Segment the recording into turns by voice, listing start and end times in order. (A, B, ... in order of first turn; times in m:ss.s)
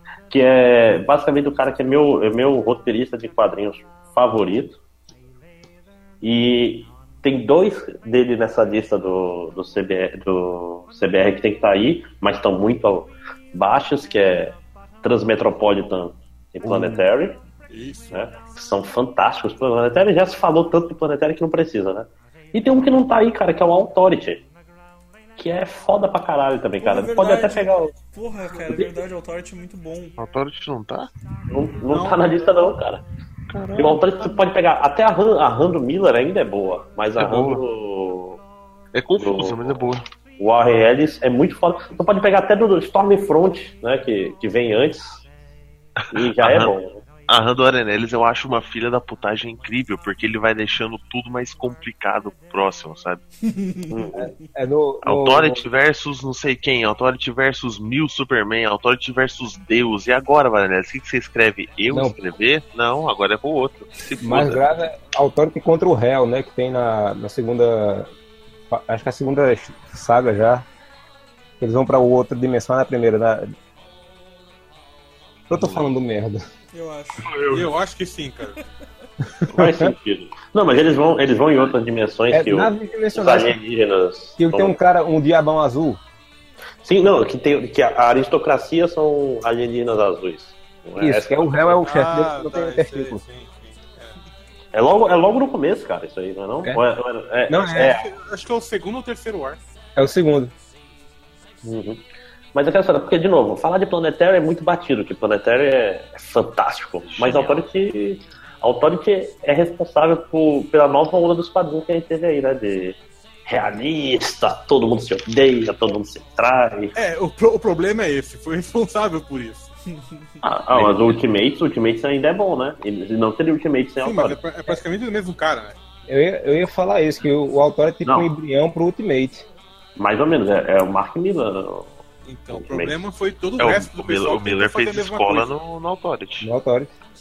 0:00.3-0:04.8 A
0:06.2-0:17.4 A
0:16.6-0:17.0 B
0:17.7-0:18.3 C
0:18.1-0:24.4 A
0:25.4-0:27.9 A
0:26.8-0:30.2 D
0:30.2-0:31.1 E
0:31.5-0:33.0 A
0:31.8-0:32.7 C
0:33.5-0:34.4 E
0:33.8-0:38.4 A
0:37.2-0:37.6 E
0:38.9-0:40.0 E
0:39.2-0:39.8 A
0:40.4-0:45.2 A
0:46.0-0:46.7 E
0:46.1-0:47.0 A
0:47.3-0:53.2 E
0:53.4-0:54.0 D
0:53.9-0:54.3 A
0:54.2-0:55.6 B
0:55.0-1:04.6 E
1:04.2-1:08.1 B
1:08.7-1:10.6 B
1:11.6-1:13.5 B
1:15.5-1:16.4 B
1:15.5-1:15.9 E
1:16.7-1:17.3 D
1:17.2-1:17.7 E
1:17.5-1:18.6 C
1:19.4-1:19.9 B
1:19.5-1:24.8 A
1:22.3-1:23.6 B
1:24.4-1:26.0 B
1:26.8-1:31.6 A
1:31.0-1:33.2 B
1:31.6-1:34.2 C
1:34.7-1:38.0 A
1:37.5-1:38.0 B
1:37.8-1:39.6 C
1:40.0-1:40.5 B
1:41.6-1:56.9 A
1:47.1-1:47.6 E
1:56.9-1:59.7 C
1:59.9-2:00.3 D
2:00.4-2:04.4 A
2:00.7-2:01.0 E
2:04.0-2:05.8 C
2:06.1-2:09.4 B
2:08.0-2:08.4 A
2:10.0-2:12.0 A
2:12.2-2:15.5 C
2:12.5-2:13.0 A
2:13.6-2:16.5 E
2:16.4-2:16.9 B